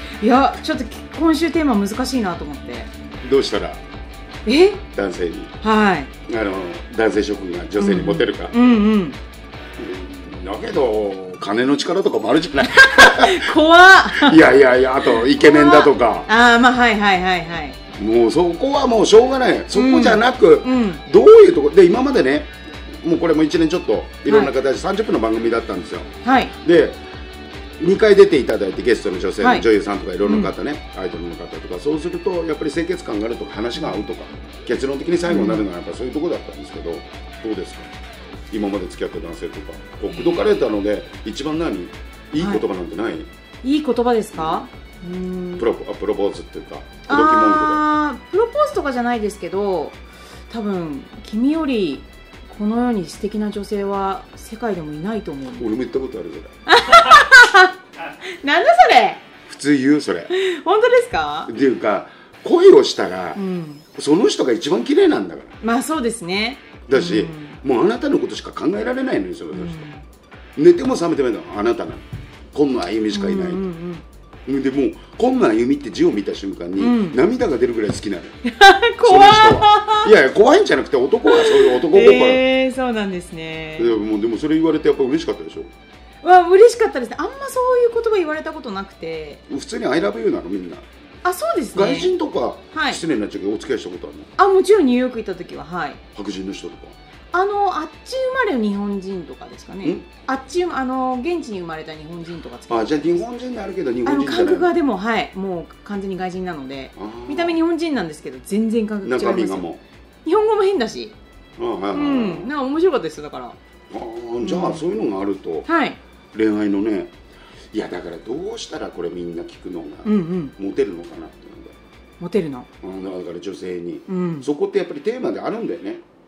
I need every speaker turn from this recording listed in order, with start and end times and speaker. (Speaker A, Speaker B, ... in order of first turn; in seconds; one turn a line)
Speaker A: 0.2-2.9
Speaker B: 3.2-3.8
Speaker A: 4.5-4.8
Speaker B: 4.9-5.5
Speaker A: 5.6-6.1
Speaker B: 6.2-8.6
Speaker A: 7.8-9.2
Speaker B: 9.8-13.6
Speaker A: 12.6-14.5
Speaker B: 14.1-16.3
Speaker A: 15.0-17.8
Speaker B: 17.9-27.0
Speaker A: 19.7-21.0
Speaker A: 24.2-24.5
Speaker A: 26.2-26.5
Speaker B: 27.8-37.9
Speaker A: 29.4-29.6
Speaker A: 30.2-30.5
Speaker A: 33.8-34.0
Speaker A: 35.2-35.6
Speaker B: 38.5-43.3
Speaker A: 40.1-40.5
Speaker A: 43.6-45.7
Speaker B: 44.3-44.6
Speaker B: 45.6-47.9
Speaker A: 47.0-55.7
Speaker B: 55.6-56.5
Speaker A: 56.7-59.2
Speaker B: 59.5-60.3
Speaker A: 60.3-61.5
Speaker B: 61.5-63.4
Speaker A: 63.4-63.8
Speaker B: 64.0-65.5
Speaker A: 65.6-67.6
Speaker B: 66.9-69.9
Speaker A: 69.5-70.0
Speaker B: 70.6-73.6
Speaker A: 73.1-74.0
Speaker B: 74.5-78.4
Speaker A: 76.8-77.2
Speaker A: 78.4-80.1
Speaker B: 79.0-82.5
Speaker A: 81.3-84.0
Speaker B: 83.8-85.7
Speaker A: 86.2-89.4
Speaker B: 89.5-90.8
Speaker A: 91.2-92.1
Speaker B: 91.7-94.3
Speaker A: 92.7-93.0
Speaker A: 94.4-96.0
Speaker B: 96.1-97.0
Speaker A: 97.3-103.2
Speaker B: 102.7-104.7
Speaker A: 104.0-109.7
Speaker B: 107.0-107.6
Speaker B: 109.0-109.8
Speaker A: 110.2-111.2
Speaker B: 111.6-112.5
Speaker A: 111.9-113.6
Speaker B: 113.9-115.7
Speaker A: 114.4-114.8
Speaker A: 115.7-116.0
Speaker B: 116.3-117.1
Speaker B: 117.7-121.8
Speaker A: 120.0-120.5
Speaker A: 122.2-122.7
Speaker B: 122.8-126.0
Speaker A: 124.1-124.5